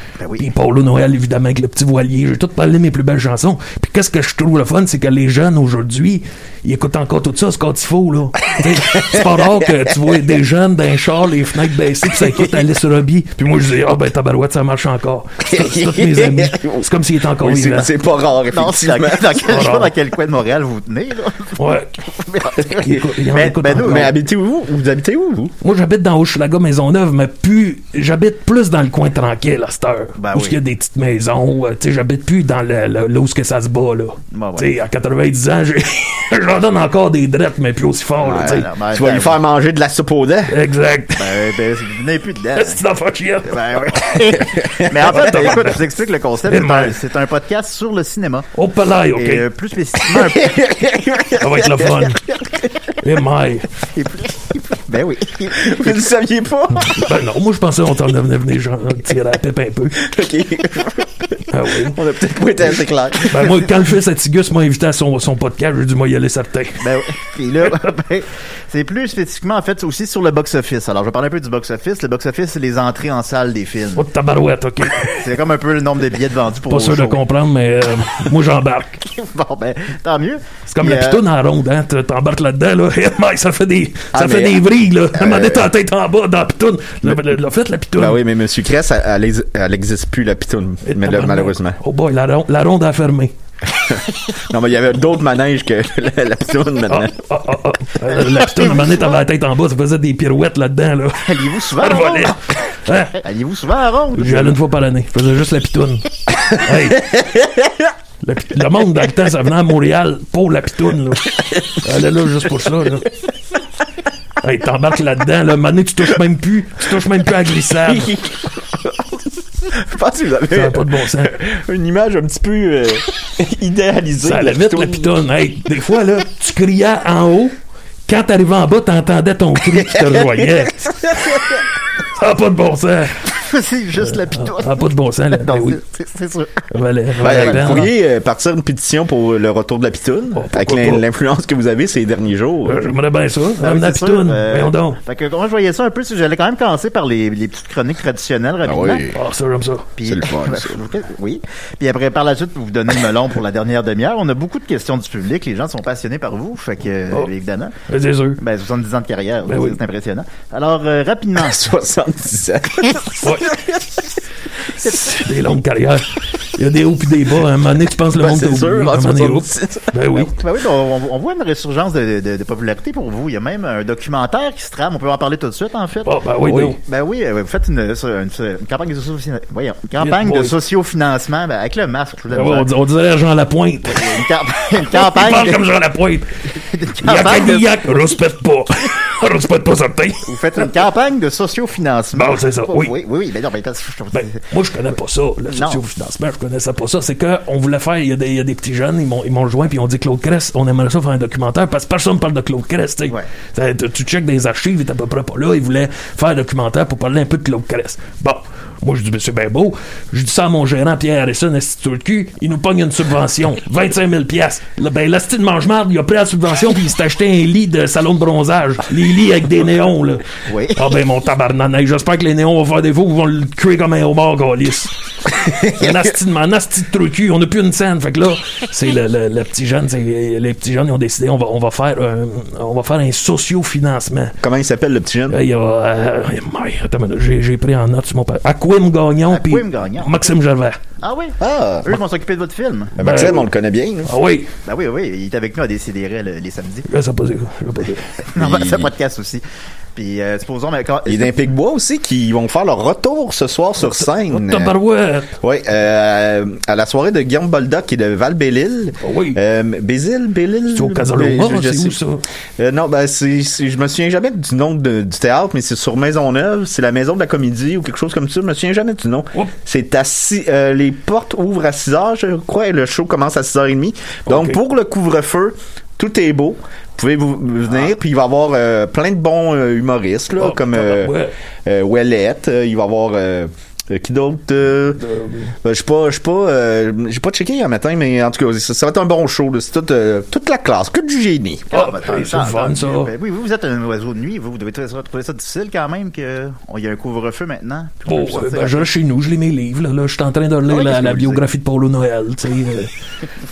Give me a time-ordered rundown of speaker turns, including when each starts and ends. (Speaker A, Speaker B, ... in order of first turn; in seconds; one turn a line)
Speaker A: 0.2-0.5
Speaker B: 0.4-17.9
Speaker C: 8.7-9.9
Speaker C: 15.4-19.5
Speaker A: 18.5-24.1
Speaker B: 19.4-19.9
Speaker B: 21.6-21.9
Speaker B: 22.7-24.1
Speaker C: 23.8-25.5
Speaker B: 25.6-38.7
Speaker A: 30.2-30.6
Speaker A: 34.3-34.7
Speaker C: 38.2-40.6
Speaker A: 38.3-39.4
Speaker B: 40.5-41.3
Speaker A: 41.2-42.8
Speaker B: 42.5-44.3
Speaker A: 43.4-48.5
Speaker C: 44.6-45.1
Speaker B: 45.1-45.8
Speaker B: 46.5-47.0
Speaker B: 48.5-49.5
Speaker A: 49.1-50.6
Speaker C: 50.0-52.1
Speaker B: 51.4-52.2
Speaker B: 53.0-53.7
Speaker A: 53.9-56.0
Speaker C: 55.5-57.1
Speaker B: 56.8-60.0
Speaker C: 60.0-63.5
Speaker B: 61.5-62.0
Speaker B: 63.3-66.8
Speaker A: 66.8-74.0
Speaker B: 74.0-75.2
Speaker A: 75.1-77.2
Speaker B: 76.7-79.0
Speaker A: 79.1-81.2
Speaker B: 80.7-88.2
Speaker C: 84.1-84.6
Speaker C: 85.1-85.7
Speaker C: 88.0-91.8
Speaker B: 90.8-93.3
Speaker C: 93.7-97.2
Speaker B: 96.9-103.2
Speaker A: 98.2-99.1
Speaker A: 101.2-102.5
Speaker A: 103.2-104.5
Speaker B: 104.1-107.2
Speaker C: 107.2-107.8
Speaker B: 108.2-113.1
Speaker B: 114.4-118.1
Speaker C: 117.7-125.1
Speaker B: 120.5-121.4
Speaker B: 124.2-127.5
Speaker B: 128.1-131.1
Speaker C: 129.7-131.6
Speaker B: 132.0-133.2
Speaker A: 133.3-136.7
Speaker B: 134.0-135.8
Speaker B: 136.7-137.9
Speaker A: 137.2-137.9
Speaker C: 137.2-142.9
Speaker B: 140.3-141.1
Speaker B: 142.6-145.0
Speaker A: 143.6-149.1
Speaker C: 148.6-149.2
Speaker B: 149.1-149.9
Speaker A: 150.0-157.7
Speaker C: 150.0-150.9
Speaker B: 157.9-158.4
Speaker A: 158.4-161.6
Speaker B: 159.5-159.8
Speaker C: 161.3-163.8
Speaker B: 163.2-163.5
Speaker B: 164.8-170.3
Speaker C: 168.1-170.2
Speaker A: 170.3-176.2
Speaker B: 176.0-176.8
Speaker C: 176.5-176.8
Speaker A: 176.8-182.7
Speaker B: 180.0-180.5
Speaker B: 182.3-184.2
Speaker A: 183.9-185.6
Speaker B: 184.8-186.3
Speaker A: 186.6-187.9
Speaker B: 187.0-190.3
Speaker A: 190.2-194.4
Speaker B: 192.1-192.9
Speaker B: 194.1-224.9
Speaker A: 195.5-195.8
Speaker A: 220.5-220.8
Speaker B: 225.6-234.3
Speaker C: 234.4-235.4
Speaker B: 235.3-240.8
Speaker A: 239.3-240.1
Speaker A: 241.0-243.1
Speaker C: 241.4-242.0
Speaker C: 243.0-244.1
Speaker B: 243.0-243.5
Speaker B: 244.1-244.5
Speaker A: 244.6-246.8
Speaker B: 246.9-248.1
Speaker A: 248.2-249.4
Speaker C: 248.3-248.9
Speaker A: 249.9-251.4
Speaker C: 251.1-254.7
Speaker B: 253.8-255.3
Speaker C: 255.4-262.0
Speaker B: 259.0-259.4
Speaker B: 260.7-262.2
Speaker C: 262.6-285.0
Speaker B: 274.3-274.6
Speaker B: 280.4-281.3
Speaker B: 285.0-285.5
Speaker C: 285.6-291.7
Speaker A: 291.7-298.9
Speaker B: 291.7-293.1
Speaker B: 298.1-302.9
Speaker A: 300.7-301.4